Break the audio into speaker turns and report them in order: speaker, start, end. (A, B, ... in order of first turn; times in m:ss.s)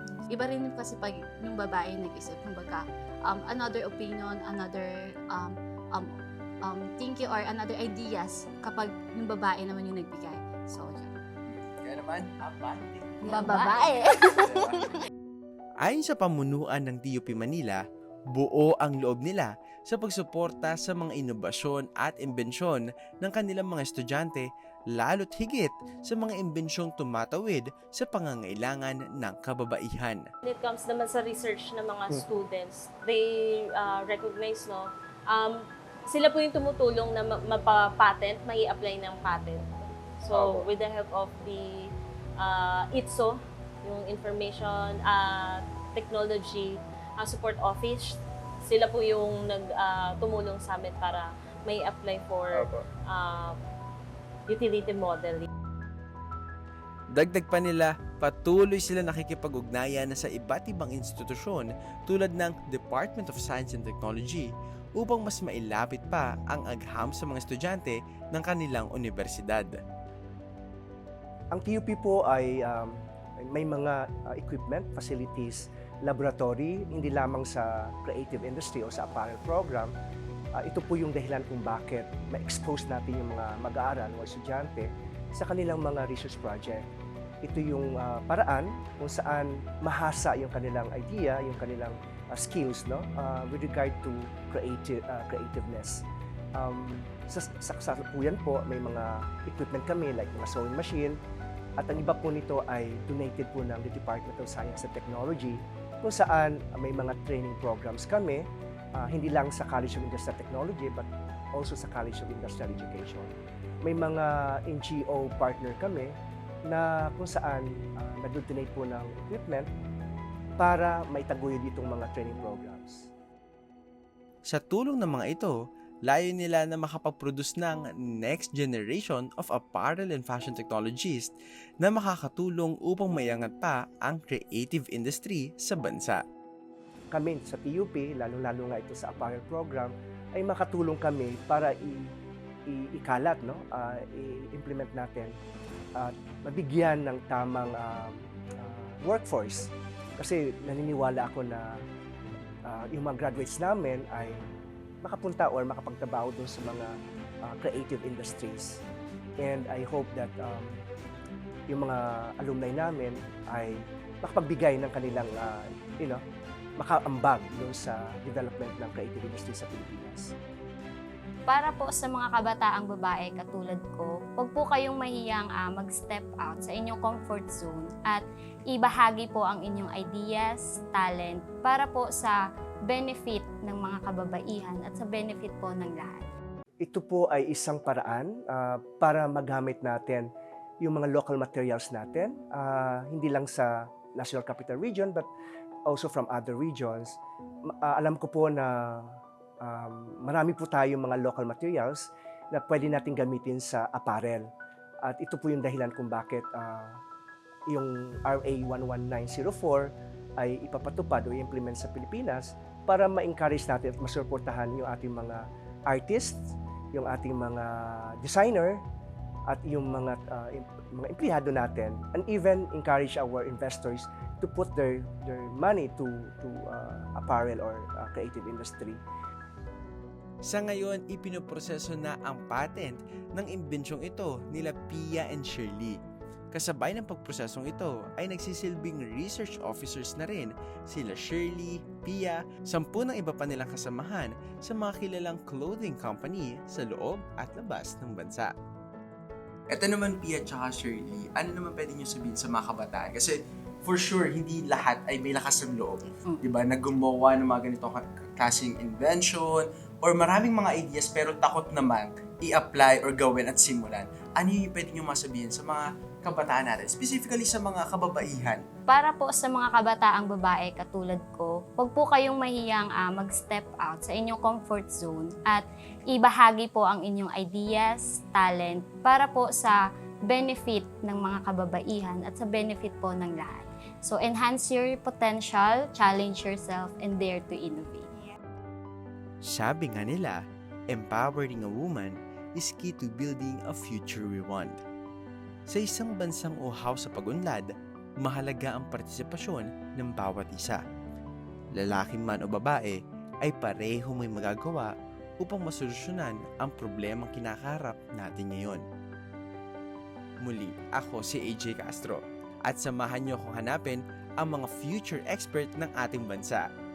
0:00.3-0:11.2 A
0:11.5-0:13.4 B
0:13.2-0:13.9 C
0:13.2-0:14.9 A
0:14.2-0:14.8 B
0:15.8-0:17.8 D
0:18.3-0:30.3 D
0:30.4-0:35.6 E
0:36.1-0:53.6 E
0:54.5-0:55.5 E
0:57.2-1:04.5 D
1:05.0-1:09.8 D
1:11.5-1:19.9 F
1:20.6-1:26.8 F
1:27.4-1:36.0 F
1:36.6-1:41.2 F
1:41.8-1:53.3 F
1:53.8-1:56.1 F
1:56.7-1:59.7 F
2:00.6-2:03.1 F
2:04.5-2:05.6 D
2:06.1-2:16.2 D
2:17.1-2:22.1 F
2:22.7-2:25.4 F
2:26.0-2:31.8 F
2:32.6-2:34.4 F
2:35.0-2:38.8 F
2:39.4-2:40.8 F
2:41.7-2:46.2 F
2:46.8-2:50.3 F
2:51.5-3:06.3 C
3:06.8-3:10.3 F
3:10.8-3:15.3 F
3:15.9-3:24.5 F
3:25.0-3:27.0 F
3:27.7-3:38.8 F
3:39.5-3:49.0 F
3:50.5-3:56.0 D
3:56.5-4:08.5 D
4:09.7-4:28.6 B
4:28.9-4:48.1 C
4:49.4-4:54.8 D
4:55.7-5:00.8 D
5:01.7-5:08.8 D
5:10.4-5:16.7 D